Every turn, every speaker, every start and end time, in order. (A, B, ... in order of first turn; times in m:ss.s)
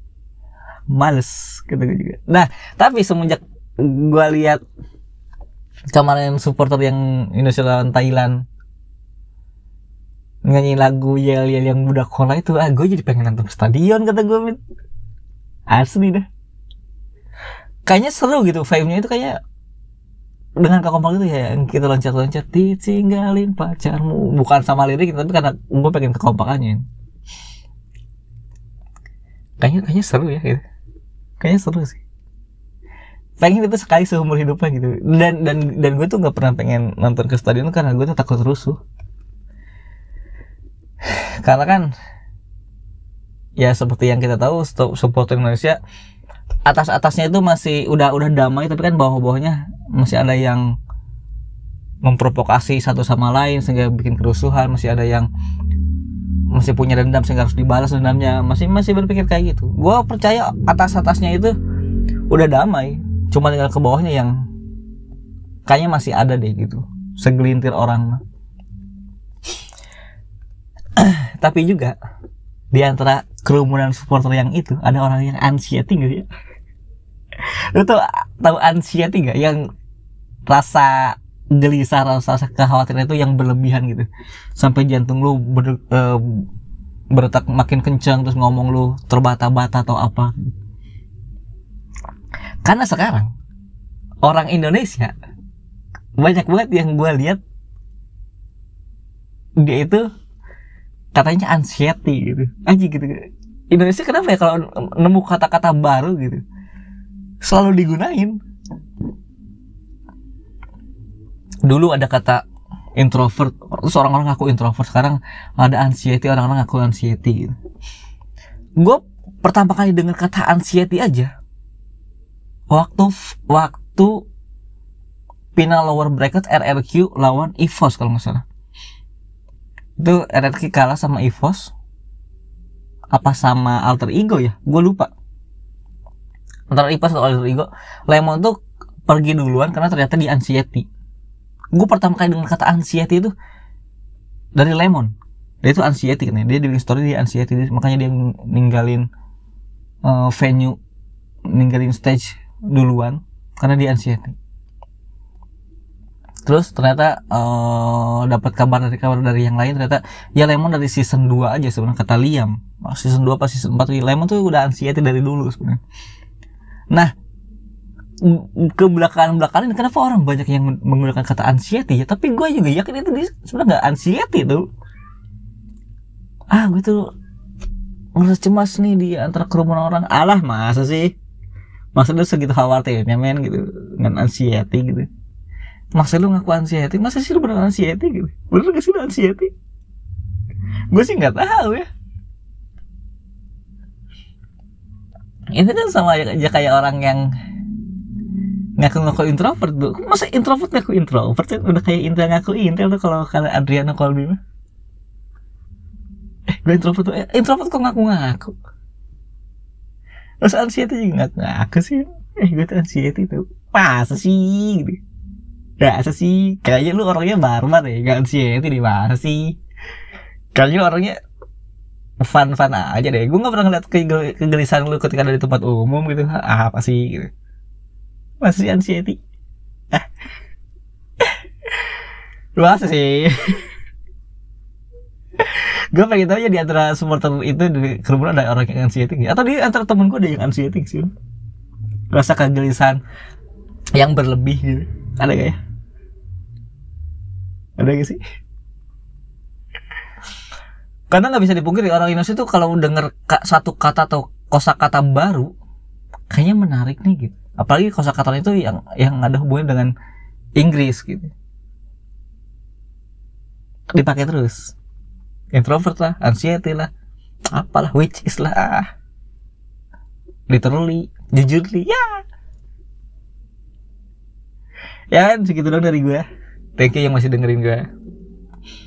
0:00.9-0:04.6 A
0:05.9-0:08.4 A
0:10.4-0:14.6 A
0:15.7-0:16.3 A
0:17.8-0:19.4 A
0:20.6-0:26.8 A
0:29.6-0:30.6 A
0:31.4-0:32.0 A
0:33.4-0:38.8 A
0:41.4-0:41.9 A
0:43.6-0:45.8 A
0:46.6-0:50.7 A
0:52.0-0:55.3 A
0:56.5-1:01.6 A
1:02.3-1:04.4 A
1:05.6-1:08.2 A
1:11.0-1:11.9 A
1:12.7-1:16.3 A
1:17.4-1:19.6 A
1:20.5-1:26.4 A
1:27.1-1:30.4 A
1:32.6-1:33.3 A
1:34.2-1:35.1 A
1:36.2-1:37.4 A
1:39.6-1:40.0 A
1:41.1-1:43.2 A
1:43.7-1:46.4 A
1:47.4-1:48.4 A
1:51.6-1:52.4 A
1:53.0-1:57.6 A
1:58.8-2:01.3 A
2:02.7-2:04.2 A
2:05.5-2:08.4 A
2:10.0-2:11.7 A
2:13.1-2:15.1 A
2:16.7-2:20.9 A
2:21.7-2:23.3 A
2:24.5-2:29.1 A
2:30.0-2:30.8 A
2:31.5-2:34.3 A
2:36.4-2:45.8 A
2:48.2-2:54.7 A
2:56.5-2:57.1 A
2:58.2-3:01.1 A
3:01.9-3:05.1 A
3:05.9-3:09.5 A
3:10.9-3:11.9 A
3:15.5-3:17.3 A
3:18.8-3:24.4 A
3:26.5-3:28.5 A
3:30.4-3:35.0 A
3:35.8-3:39.5 A
3:40.5-3:41.2 A
3:42.2-3:47.3 A
3:48.4-3:49.2 A
3:52.6-3:53.6 A
3:55.4-4:01.1 A
4:02.1-4:03.0 A
4:03.9-4:05.6 A
4:07.8-4:08.2 A
4:11.1-4:15.5 A
4:16.3-4:19.9 A
4:20.6-4:21.3 A
4:23.9-4:24.7 A
4:25.5-4:26.9 A
4:27.5-4:28.9 A
4:30.5-4:32.2 A
4:35.1-4:36.2 A
4:36.8-4:37.9 A